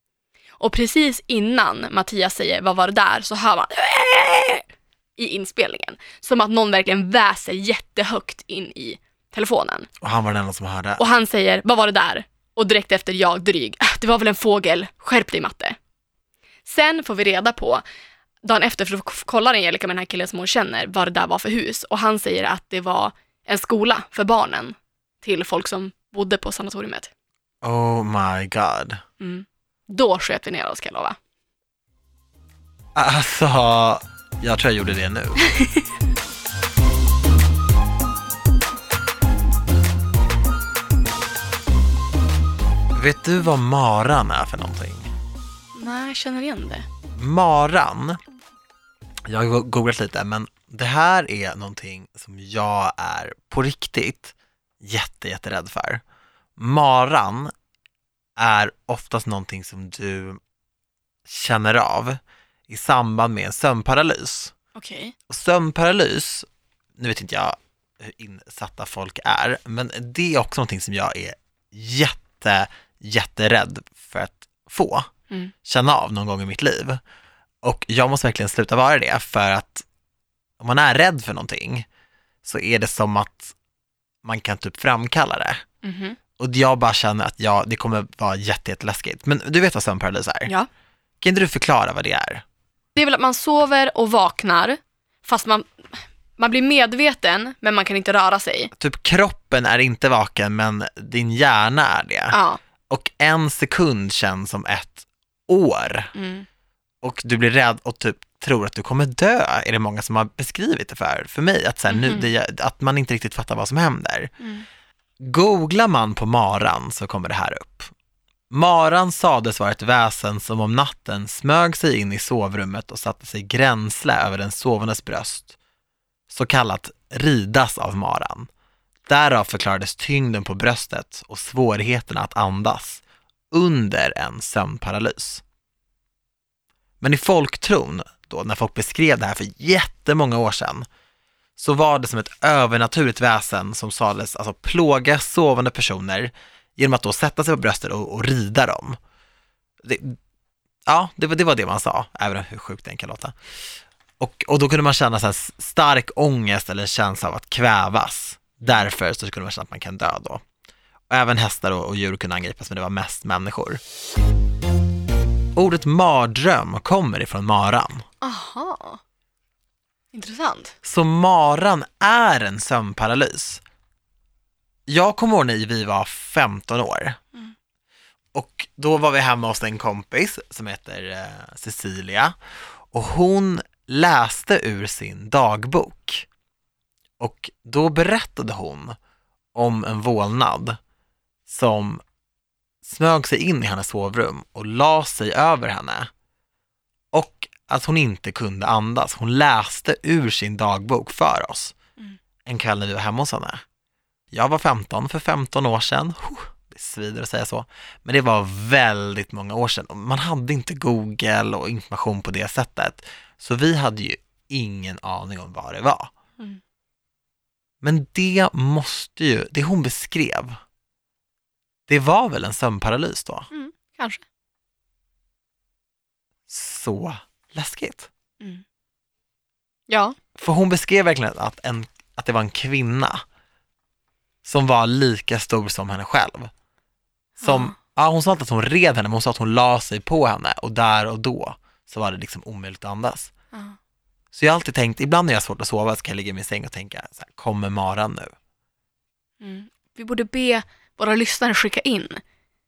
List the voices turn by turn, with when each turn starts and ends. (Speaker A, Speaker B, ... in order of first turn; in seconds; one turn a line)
Speaker A: 0.6-9.9
Speaker B: 10.0-11.1
Speaker A: 11.0-15.8
Speaker A: 16.7-17.8
Speaker A: 18.4-27.1
Speaker B: 27.6-29.0
Speaker A: 29.2-31.2
Speaker B: 33.0-35.5
Speaker B: 43.0-45.1
Speaker A: 45.7-46.9
Speaker B: 47.1-48.2
Speaker B: 49.3-56.0
Speaker B: 56.6-57.5
Speaker B: 58.4-60.4
Speaker B: 61.3-64.5
Speaker A: 64.8-65.1
Speaker B: 65.3-66.5
Speaker B: 67.0-75.1
Speaker B: 75.6-77.0
Speaker B: 77.6-79.9
Speaker B: 80.6-81.9
Speaker B: 82.4-83.5
Speaker B: 84.2-85.6
Speaker A: 85.8-86.2
Speaker B: 86.4-90.5
Speaker B: 91.2-92.4
Speaker A: 93.0-98.7
Speaker B: 98.8-102.4
Speaker A: 102.3-102.6
Speaker B: 102.9-106.1
Speaker A: 106.1-106.5
Speaker B: 107.0-114.3
Speaker A: 111.9-112.3
Speaker B: 115.2-117.9
Speaker B: 118.5-125.5
Speaker B: 126.3-128.5
Speaker B: 129.1-135.4
Speaker B: 137.0-140.9
Speaker B: 141.6-149.0
Speaker B: 149.8-150.2
Speaker B: 150.9-153.4
Speaker B: 154.2-160.4
Speaker B: 161.1-163.8
Speaker B: 165.6-168.1
Speaker A: 168.2-169.0
Speaker A: 170.1-170.8
Speaker B: 170.8-173.6
Speaker B: 174.9-177.2
Speaker B: 178.3-182.3
Speaker B: 182.9-186.3
Speaker B: 187.2-189.0
Speaker B: 189.5-190.8
Speaker B: 191.5-192.0
Speaker B: 192.8-196.1
Speaker B: 197.1-201.8
Speaker B: 202.4-203.6
Speaker B: 204.3-216.1
Speaker B: 217.8-220.6
Speaker B: 221.9-223.5
Speaker A: 223.5-224.2
Speaker B: 226.5-228.1
Speaker A: 229.9-230.2
Speaker B: 230.4-233.2
Speaker B: 234.4-236.5
Speaker A: 237.4-237.8
Speaker B: 237.4-243.3
Speaker B: 244.3-248.3
Speaker A: 249.4-252.2